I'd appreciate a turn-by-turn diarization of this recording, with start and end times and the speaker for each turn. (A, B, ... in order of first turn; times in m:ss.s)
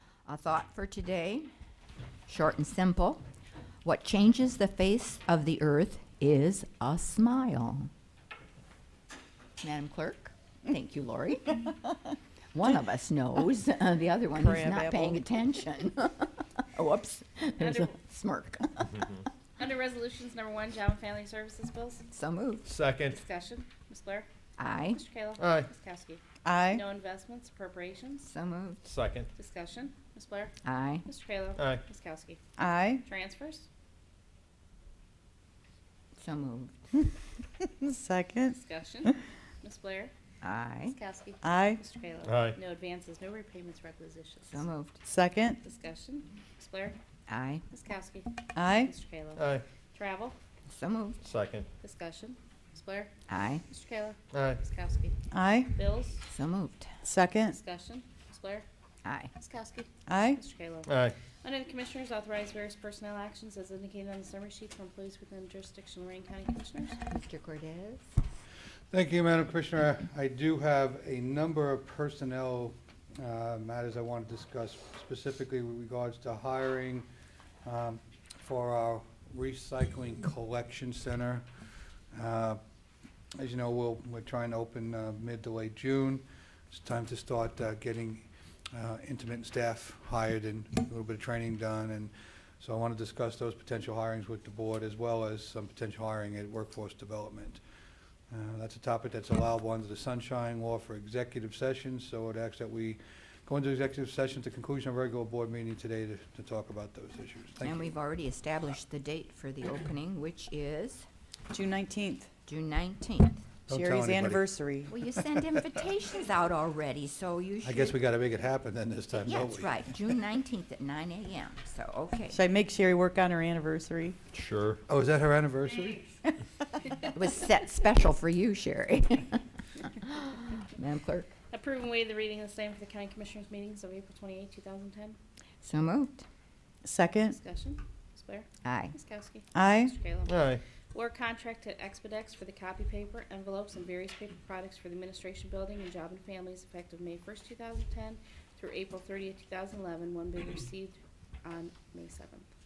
0:00.2-0:01.5 A
0:02.3-0:03.2 A
0:03.8-0:07.9 A
0:09.6-0:11.7 A
0:12.5-0:19.1 A
0:14.3-0:15.2 B
0:17.6-0:18.0 C
0:19.6-0:22.0 C
0:22.1-0:22.6 A
0:22.6-0:23.2 D
0:23.1-0:24.3 C
0:24.6-0:25.0 A
0:24.8-0:26.2 C
0:25.4-0:25.7 D
0:26.4-0:26.8 B
0:26.7-0:28.3 C
0:28.2-0:28.8 A
0:28.8-0:29.3 D
0:29.3-0:30.5 C
0:30.6-0:31.0 A
0:31.0-0:32.4 C
0:31.6-0:31.8 D
0:32.6-0:33.0 B
0:33.0-0:33.6 C
0:36.2-0:36.8 A
0:37.8-0:38.6 B
0:38.5-0:40.1 C
0:40.4-0:41.0 A
0:40.8-0:44.6 C
0:41.4-0:41.8 B
0:42.2-0:42.6 D
0:44.5-0:45.0 A
0:45.0-0:45.6 B
0:45.6-0:47.0 C
0:47.3-0:47.6 A
0:47.7-0:50.4 C
0:48.5-0:48.9 B
0:49.4-0:49.6 D
0:50.7-0:51.2 A
0:51.2-0:51.7 D
0:51.8-0:53.1 C
0:53.3-0:53.6 A
0:53.6-0:55.1 C
0:54.3-0:54.6 D
0:55.3-0:55.7 B
0:55.7-0:56.2 C
0:56.3-0:56.9 A
0:57.0-0:57.6 B
0:57.5-0:58.6 C
0:59.0-0:59.3 A
0:59.3-1:00.9 C
1:00.1-1:00.4 B
1:00.8-1:01.2 D
1:01.4-1:07.0 C
1:07.1-1:08.0 A
1:08.9-1:17.1 E
1:17.6-1:21.4 E
1:22.1-1:22.6 E
1:23.4-1:37.6 E
1:38.3-1:47.9 E
1:47.6-1:51.0 A
1:51.5-1:52.3 B
1:52.4-1:53.4 A
1:53.7-1:54.4 E
1:53.7-1:54.9 B
1:54.9-1:58.0 A
1:57.6-1:59.8 E
1:59.2-2:02.4 A
2:02.3-2:04.2 B
2:04.3-2:04.8 D
2:04.9-2:06.1 E
2:07.1-2:11.3 A
2:11.5-2:15.2 C
2:15.6-2:16.2 A
2:16.8-2:17.4 B
2:17.3-2:20.3 C
2:18.6-2:18.9 A
2:19.5-2:19.9 B
2:20.2-2:20.6 D
2:20.9-2:32.4 C